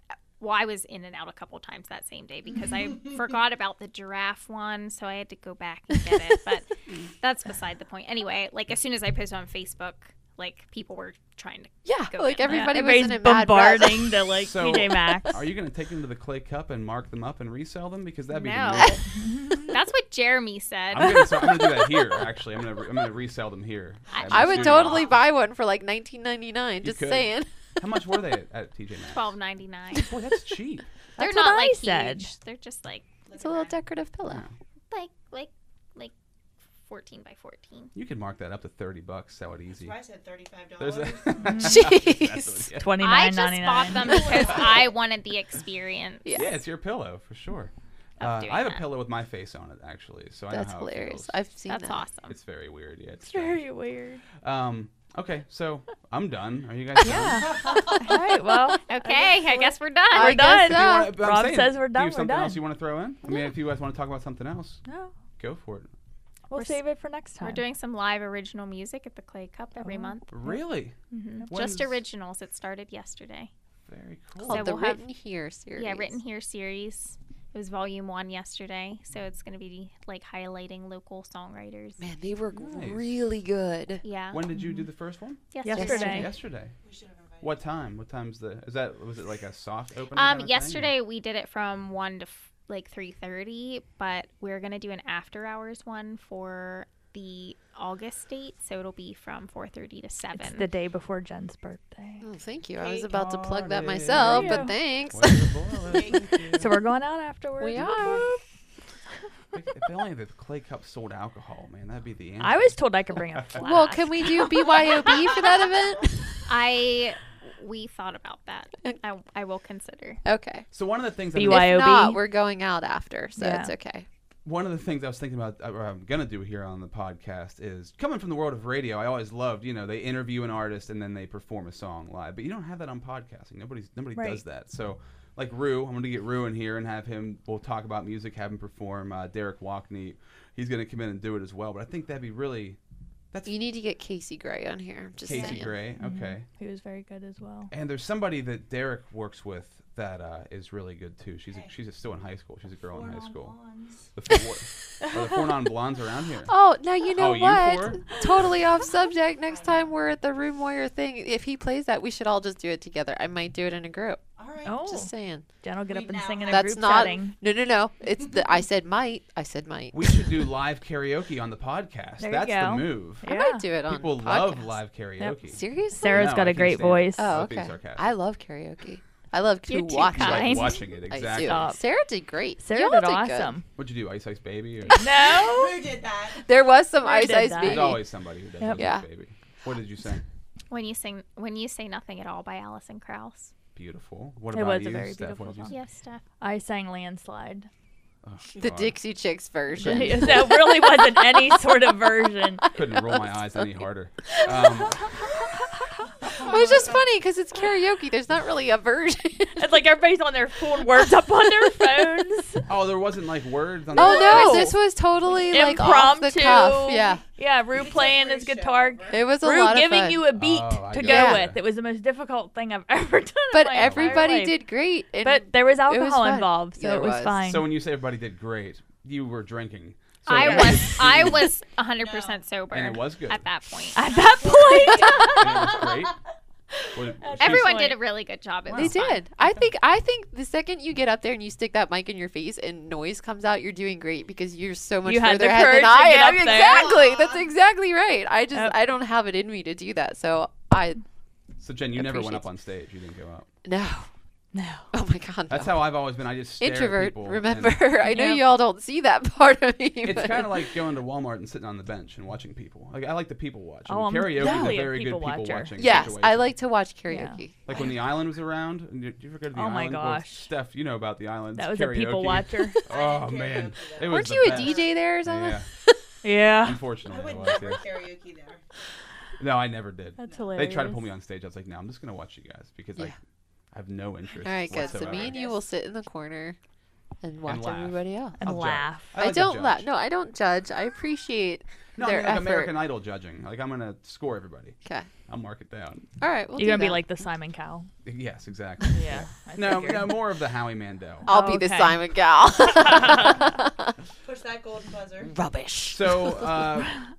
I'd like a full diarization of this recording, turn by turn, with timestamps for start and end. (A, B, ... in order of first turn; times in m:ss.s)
0:00.4-0:12.8 A
0:11.8-0:14.4 B
0:12.4-0:15.4 C
0:14.4-0:19.0 D
0:18.3-0:19.0 A
0:19.2-0:19.7 C
0:19.6-0:21.6 A
0:20.9-0:25.1 D
0:24.1-0:25.2 E
0:24.1-0:24.5 A
0:24.3-0:27.8 B
0:26.8-0:29.3 D
0:29.1-0:30.1 A
0:30.0-0:30.8 D
0:31.2-0:33.1 A
0:31.2-0:32.3 C
0:33.2-0:33.8 E
0:33.4-0:34.4 B
0:34.2-0:34.5 D
0:34.9-0:36.1 A
0:36.8-0:37.9 A
0:37.9-0:40.0 D
0:39.7-0:41.9 E
0:40.8-0:43.0 D
0:41.4-0:41.9 C
0:41.5-0:42.7 B
0:42.8-0:44.3 C
0:43.0-0:46.4 A
0:43.8-0:44.9 E
0:44.1-0:44.6 B
0:46.2-0:46.5 B
0:46.3-0:51.4 D
0:48.2-0:48.9 A
0:50.5-0:52.0 B
0:51.7-0:52.4 A
0:52.3-0:53.6 D
0:53.2-0:54.2 C
0:54.4-0:57.7 D
0:57.0-1:02.6 C
0:57.4-0:57.9 E
0:58.8-1:00.5 A
1:00.1-1:01.2 B
1:00.6-1:04.8 D
1:04.8-1:05.1 C
1:05.4-1:05.9 D
1:06.5-1:07.6 C
1:06.5-1:06.8 A
1:07.4-1:10.2 A
1:09.8-1:10.6 C
1:10.3-1:11.0 D
1:11.1-1:11.5 C
1:11.1-1:13.5 A
1:11.5-1:12.0 D
1:13.9-1:14.7 D
1:14.4-1:16.2 B
1:14.4-1:15.0 A
1:15.8-1:22.0 A
1:22.0-1:24.0 B
1:22.5-1:23.1 D
1:24.0-1:24.4 A
1:24.3-1:26.7 D
1:24.5-1:24.9 C
1:25.5-1:26.3 A
1:25.6-1:26.3 C
1:25.7-1:26.3 B
1:26.8-1:27.6 E
1:27.4-1:30.9 D
1:30.1-1:40.7 A
1:40.3-1:42.2 C
1:42.2-1:45.5 B
1:42.8-1:43.1 E
1:43.1-1:46.8 D
1:44.1-1:44.8 C
1:45.9-1:46.3 E
1:46.6-1:48.2 C
1:47.6-1:48.4 B
1:49.5-1:53.6 D
1:52.4-1:54.6 C
1:53.6-1:56.5 B
1:54.7-1:55.7 E
1:56.4-2:00.2 A
2:00.2-2:00.7 B
2:00.7-2:01.7 D
2:01.3-2:02.2 C
2:01.4-2:04.1 B
2:03.4-2:03.7 C
2:04.4-2:22.8 D
2:14.1-2:14.4 C
2:23.4-2:25.8 B
2:25.2-2:26.5 D
2:26.0-2:27.7 C
2:27.7-2:33.6 D
2:32.9-2:34.1 E
2:34.1-2:36.5 D
2:36.5-2:44.2 B
2:37.1-2:38.5 D
2:39.4-2:39.9 E
2:44.4-2:45.1 E
2:44.6-2:45.1 C
2:44.8-2:45.5 B
2:45.6-2:47.3 C
2:45.9-2:47.2 E
2:46.5-2:50.4 B
2:49.9-2:53.2 D
2:52.2-2:53.6 C
2:53.2-2:54.8 B
2:53.9-2:58.1 D
2:55.4-2:56.6 B
2:55.9-2:57.3 C
2:57.2-3:03.5 B
2:59.7-3:00.8 A
3:00.2-3:01.7 D
3:00.2-3:00.6 C
3:01.4-3:01.8 C
3:02.6-3:03.7 C
3:03.8-3:05.0 D
3:04.9-3:05.9 C
3:05.1-3:06.5 E
3:06.4-3:08.0 B
3:07.0-3:08.0 C
3:07.6-3:10.2 D
3:08.6-3:08.9 C
3:08.8-3:09.0 B
3:10.7-3:13.5 A
3:13.7-3:15.7 D
3:14.5-3:15.7 C
3:15.7-3:16.2 A
3:16.4-3:17.7 C
3:18.2-3:19.0 D
3:18.6-3:21.8 B
3:19.8-3:22.7 C
3:22.7-3:25.1 D
3:22.9-3:23.6 B
3:24.3-3:25.4 B
3:26.2-3:29.8 B
3:26.2-3:27.0 E
3:29.6-3:32.6 C
3:32.7-3:34.7 D
3:33.9-3:34.8 C
3:33.9-3:37.2 B
3:35.3-3:35.6 E
3:35.3-3:44.6 C
3:37.7-3:39.3 E
3:39.1-3:40.2 B
3:40.3-3:41.6 D
3:41.0-3:41.4 B
3:43.5-3:47.4 B
3:43.8-3:44.3 D
3:45.2-3:47.7 C
3:47.4-3:51.5 D
3:50.3-3:51.0 C
3:50.3-3:54.0 A
3:52.0-3:52.4 E
3:52.7-3:53.4 D
3:53.9-3:55.8 C
3:53.9-3:56.2 E
3:54.7-3:55.4 B
3:55.4-3:56.2 D
3:56.9-3:57.9 D
3:57.2-3:58.0 C
3:57.4-3:59.2 A
3:58.7-3:59.0 D
3:58.7-4:11.0 B
4:05.0-4:07.0 C
4:06.5-4:07.4 E
4:11.6-4:13.5 D
4:11.9-4:12.4 B
4:13.6-4:14.1 B
4:14.5-4:14.9 C
4:14.9-4:16.0 B
4:15.5-4:17.8 D
4:16.6-4:20.6 B
4:18.0-4:18.5 C
4:20.0-4:26.6 D
4:23.9-4:26.0 C
4:24.4-4:24.8 B
4:25.8-4:27.9 B
4:27.1-4:27.4 C
4:27.6-4:35.7 D
4:29.5-4:30.5 C
4:31.5-4:32.8 C
4:32.8-4:35.0 E
4:34.0-4:36.0 B
4:36.2-4:36.8 C
4:36.6-4:37.9 D
4:37.0-4:38.6 E
4:39.4-4:43.1 D
4:40.2-4:41.0 C
4:40.2-4:40.6 E
4:43.7-4:45.4 D
4:44.2-4:45.6 E
4:44.4-4:46.6 B
4:47.2-4:48.4 B
4:47.4-4:49.9 D
4:48.4-4:49.3 C
4:49.1-4:52.8 B
4:52.0-4:54.8 D
4:55.3-4:56.1 D
4:56.2-4:57.0 B
4:56.6-4:57.9 C
4:58.0-5:01.3 D
4:58.9-5:00.1 C
5:01.2-5:03.9 B
5:01.3-5:02.0 C
5:02.8-5:03.3 C
5:04.2-5:05.3 E
5:05.2-5:06.6 B
5:05.9-5:07.0 D